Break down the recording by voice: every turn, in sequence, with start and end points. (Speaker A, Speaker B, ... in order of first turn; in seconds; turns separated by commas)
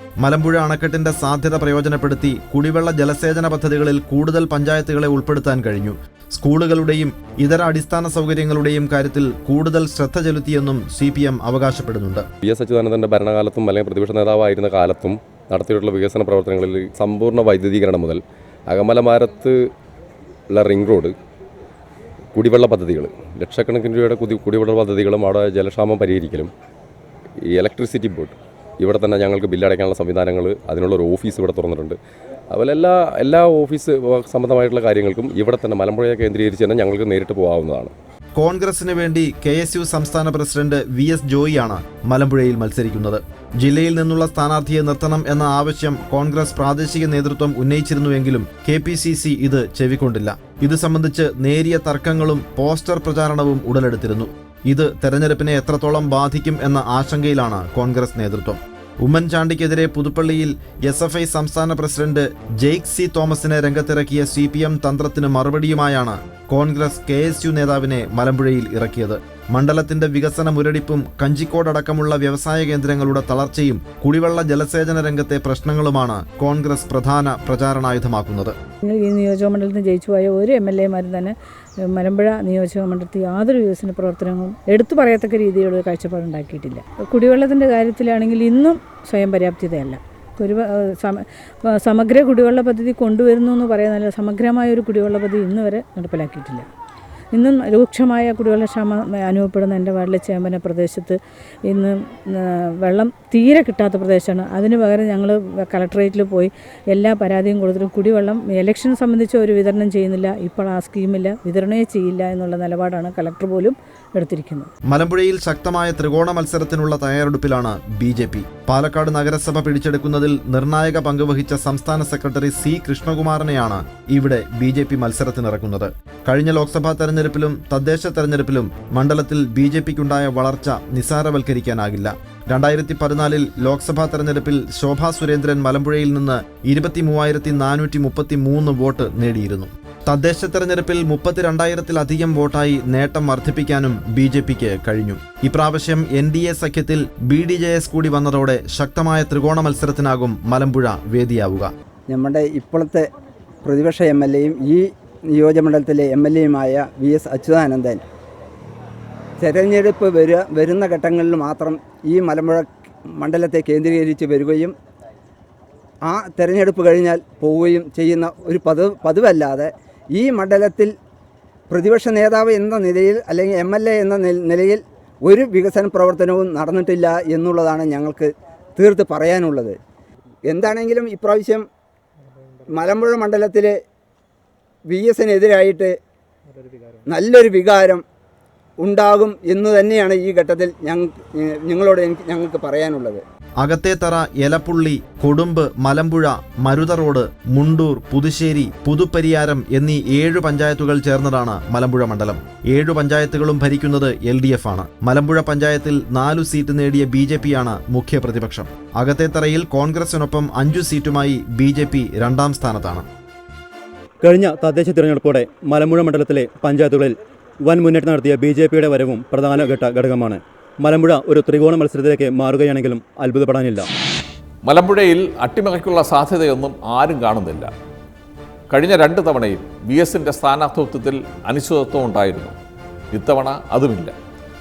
Speaker A: 0.2-12.3, Speaker B: 12.4-19.6, Speaker B: 20.5-21.1, Speaker B: 22.4-26.5, Speaker B: 27.5-32.0, Speaker B: 32.5-37.9, Speaker A: 38.4-78.6, Speaker C: 78.9-96.7, Speaker C: 97.3-114.7, Speaker A: 114.9-151.7, Speaker D: 152.1-153.1, Speaker D: 153.6-158.0, Speaker D: 159.4-164.8, Speaker D: 166.1-170.9, Speaker D: 171.7-179.8, Speaker D: 180.5-181.7, Speaker D: 182.7-183.8, Speaker D: 184.9-185.9, Speaker D: 187.1-188.0, Speaker D: 188.8-193.2, Speaker A: 193.6-213.1, Speaker E: 214.2-223.9, Speaker F: 224.7-227.7, Speaker F: 228.7-232.6, Speaker F: 233.1-234.2